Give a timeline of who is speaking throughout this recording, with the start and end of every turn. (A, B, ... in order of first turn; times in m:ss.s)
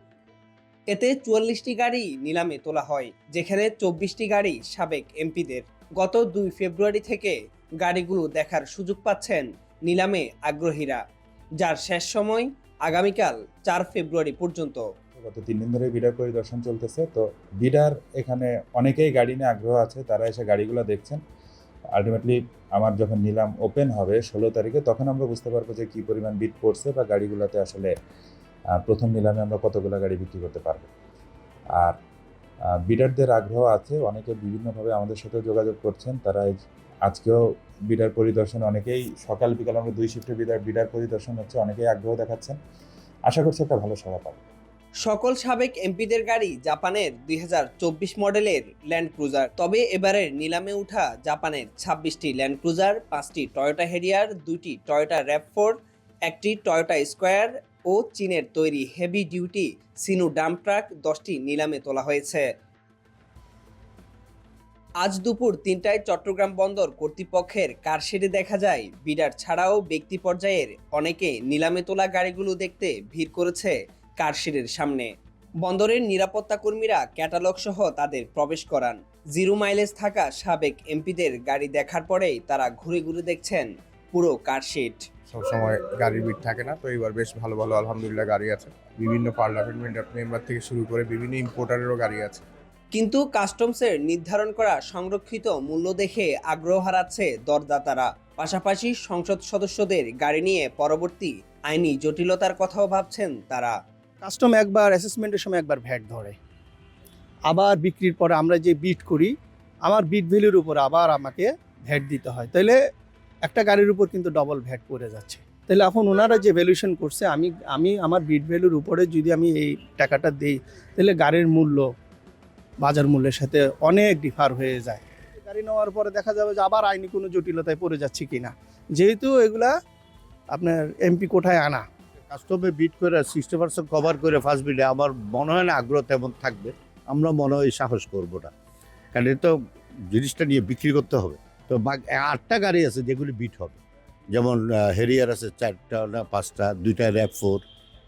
0:00.9-0:11.0 A
0:11.6-0:14.8 A
0:15.2-0:21.2 B
0:21.9-0:27.9 B
0:28.8-0:30.9 B
0:32.9-0:36.5 B
0:37.1-0:37.4 B
0:37.9-0:42.6 B
0:43.3-0:44.4 B
0:45.0-1:02.5 A
1:05.0-1:15.1 A
1:15.6-1:25.0 A
1:25.3-1:32.4 C
1:32.9-1:43.7 A
1:44.2-1:46.4 D
1:47.5-1:49.3 D
1:49.8-1:52.8 D
1:53.4-2:01.9 D
2:02.8-2:09.7 D
2:10.5-2:11.8 D
2:12.3-2:18.5 E
2:19.1-2:19.5 E
2:20.1-2:23.8 E
2:24.3-2:27.6 E